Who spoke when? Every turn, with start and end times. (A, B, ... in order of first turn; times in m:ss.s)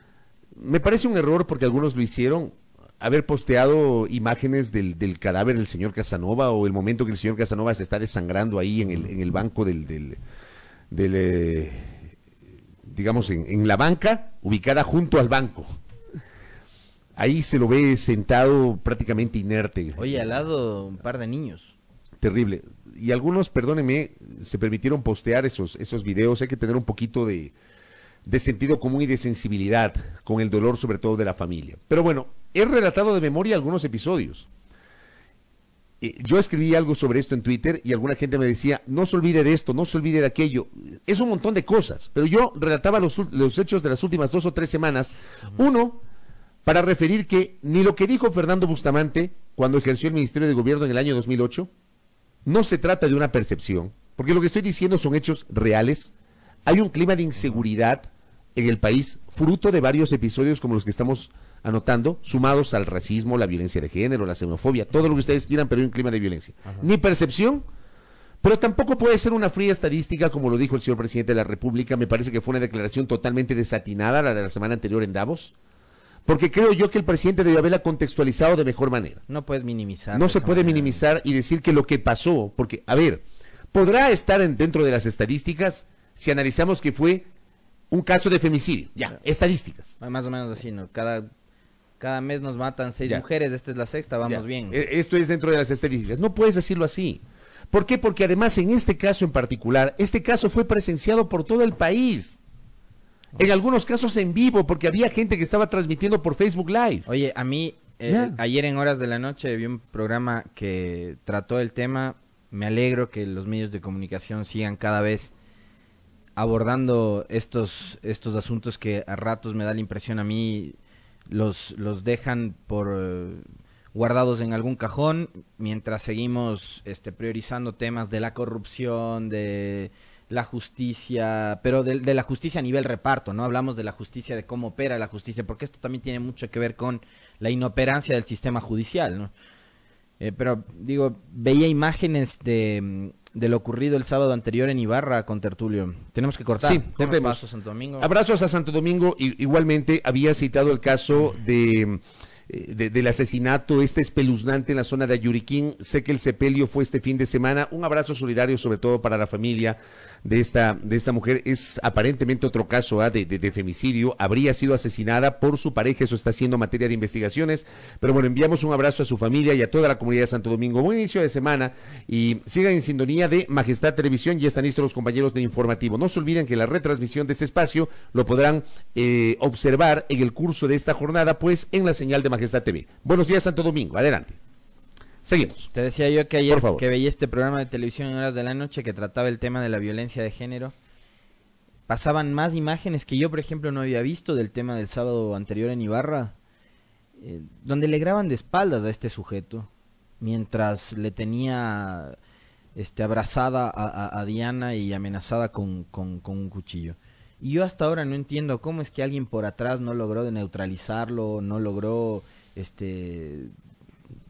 0:00.5-0:10.2 A
0:10.9-0:12.1 A
0:12.8-0:15.8 A
0:17.2-0:20.2 A
0:20.0-0:21.7 B
0:22.2-0:27.5 A
0:28.2-0:34.5 A
0:36.0-0:46.0 A
0:46.6-0:51.7 A
0:52.4-0:56.1 A
0:56.6-1:07.6 A
1:08.4-1:15.5 A
1:16.2-1:19.2 A
1:19.3-1:21.0 B
1:20.1-1:23.2 A
1:23.7-1:27.3 A
1:27.9-1:29.9 A
1:30.0-1:31.3 B
1:32.0-1:34.8 B
1:34.3-1:42.4 A
1:43.4-1:47.0 A
1:47.0-1:55.3 B
1:48.1-1:48.3 A
1:56.4-2:00.8 B
2:01.3-2:19.3 B
2:20.2-2:28.1 B
2:26.6-2:27.4 A
2:28.0-3:04.4 A
3:05.2-3:05.7 A
3:05.7-3:10.7 B
3:06.5-3:06.8 A
3:11.9-3:16.3 B
3:17.2-3:19.7 B
3:20.2-3:22.2 B
3:22.8-3:33.5 B